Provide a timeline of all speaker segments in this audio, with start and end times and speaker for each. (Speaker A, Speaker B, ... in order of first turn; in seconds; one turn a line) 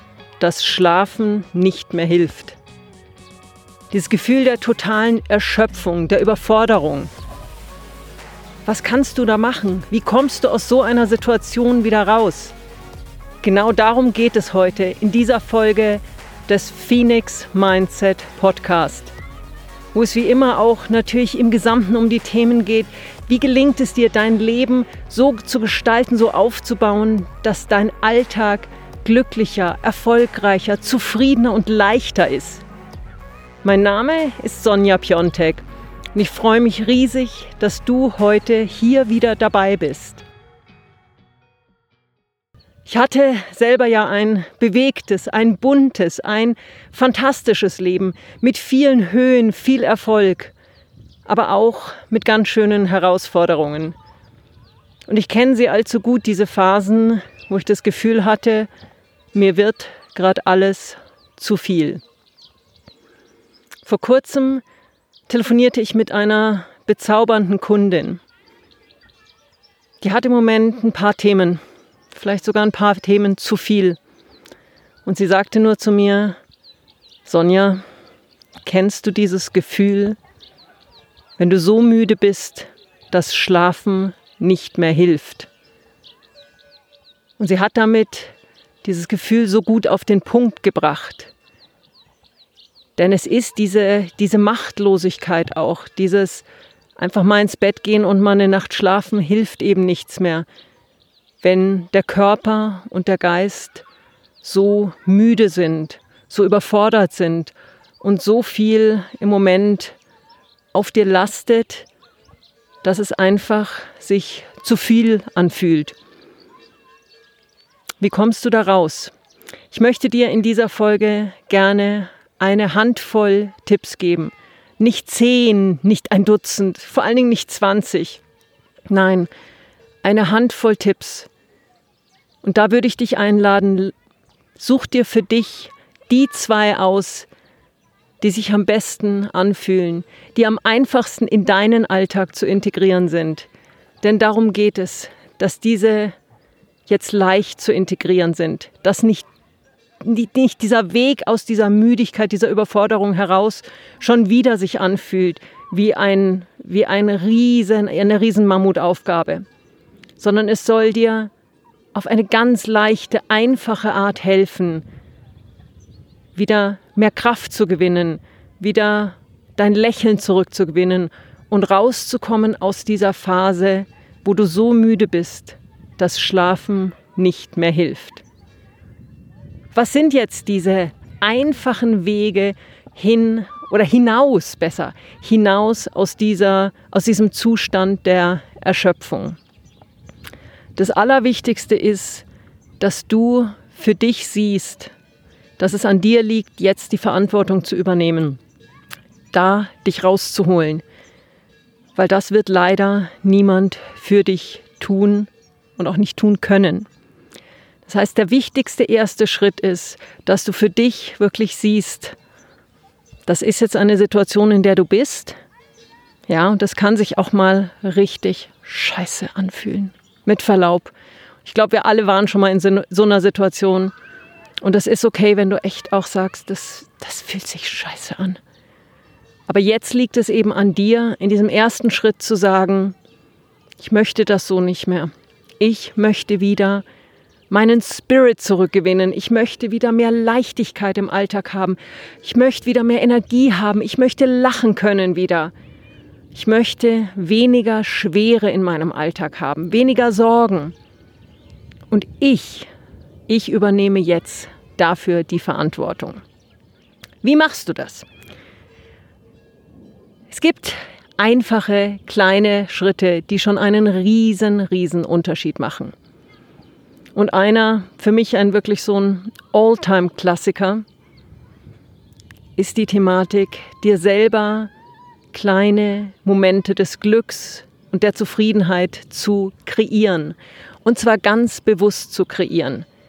Speaker A: 0.4-2.6
Speaker A: 3.9-7.1
Speaker A: 8.7-12.5
Speaker A: 13.4-19.1
Speaker A: 19.9-32.6
Speaker A: 33.6-40.2
Speaker A: 42.9-50.5
Speaker A: 51.2-54.0
Speaker A: 55.1-58.7
Speaker A: 59.3-62.0
Speaker A: 63.8-64.6
Speaker A: 65.3-68.2
Speaker A: 70.0-71.6
Speaker A: 72.1-74.0
Speaker A: 75.0-76.4
Speaker A: 77.2-77.8
Speaker A: 78.6-80.2
Speaker A: 81.4-85.5
Speaker A: 87.4-91.3
Speaker A: 93.0-96.5
Speaker A: 97.0-100.5
Speaker A: 101.4-103.8
Speaker A: 104.4-110.0
Speaker A: 110.7-111.9
Speaker A: 112.8-116.0
Speaker A: 118.0-119.1
Speaker A: 119.7-128.2
Speaker A: 128.9-129.3
Speaker A: 130.0-131.3
Speaker A: 132.4-133.9
Speaker A: 134.6-137.3
Speaker A: 138.2-143.5
Speaker A: 144.0-146.2
Speaker A: 146.9-149.2
Speaker A: 150.0-159.4
Speaker A: 160.2-161.3
Speaker A: 161.9-164.8
Speaker A: 166.3-178.2
Speaker A: 179.7-189.4
Speaker A: 190.8-192.2
Speaker A: 192.8-194.9
Speaker A: 195.6-198.4
Speaker A: 199.3-200.8
Speaker A: 201.9-206.9
Speaker A: 207.8-212.2
Speaker A: 213.2-215.4
Speaker A: 216.3-220.9
Speaker A: 221.4-223.9
Speaker A: 224.6-228.4
Speaker A: 229.5-232.9
Speaker A: 233.8-236.8
Speaker A: 237.5-245.5
Speaker A: 246.3-250.7
Speaker A: 251.9-252.7
Speaker A: 253.3-256.2
Speaker A: 257.2-258.1
Speaker A: 260.3-265.9
Speaker A: 267.1-270.8
Speaker A: 272.6-274.7
Speaker A: 275.3-282.9